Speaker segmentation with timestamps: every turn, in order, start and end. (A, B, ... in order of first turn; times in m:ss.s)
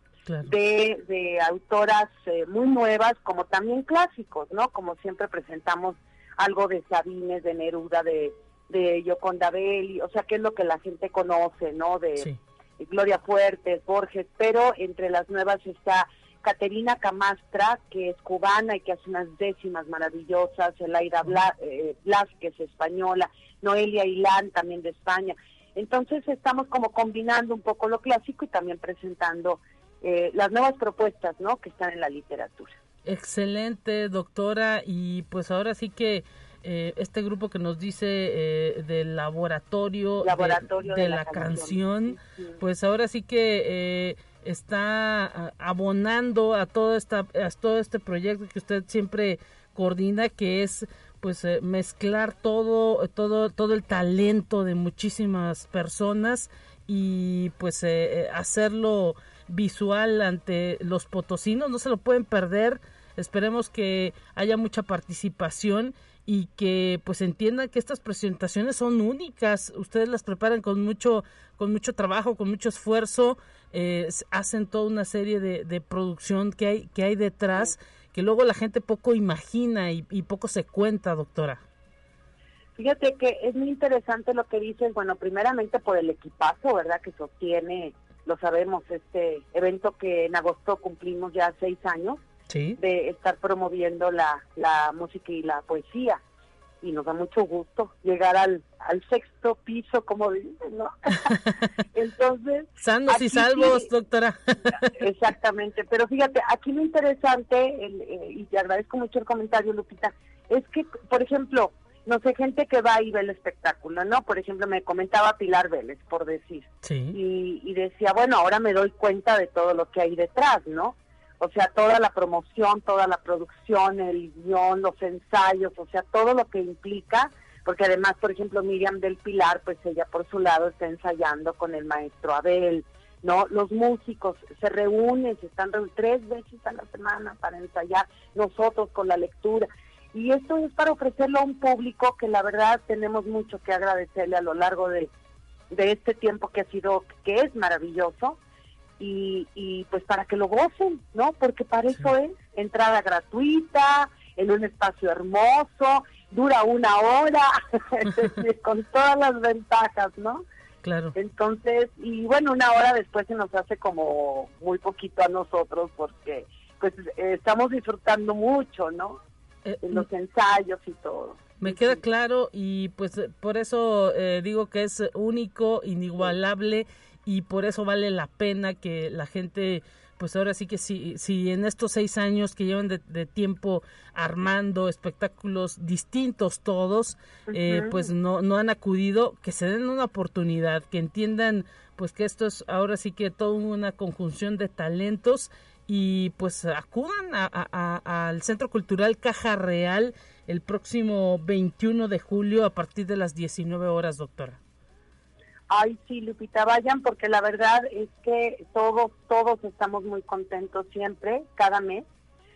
0:00.3-0:00.5 A
0:00.4-0:32.8 B
0:33.0-1:21.6 A
0:40.2-0:42.6 B
1:22.8-1:32.2 B
1:32.5-1:32.8 A
1:32.8-1:36.2 B
1:36.8-1:43.9 B
1:41.3-1:41.6 A
1:42.8-1:45.0 A
1:44.8-2:25.1 B
1:56.8-1:57.2 A
2:25.7-2:28.4 B
2:29.0-2:40.4 B
2:40.8-2:41.1 A
2:41.1-2:49.2 B
2:49.6-2:50.1 A
2:49.8-2:52.0 B
2:51.6-3:24.6 A
3:07.5-3:08.1 B
3:25.7-3:32.0 B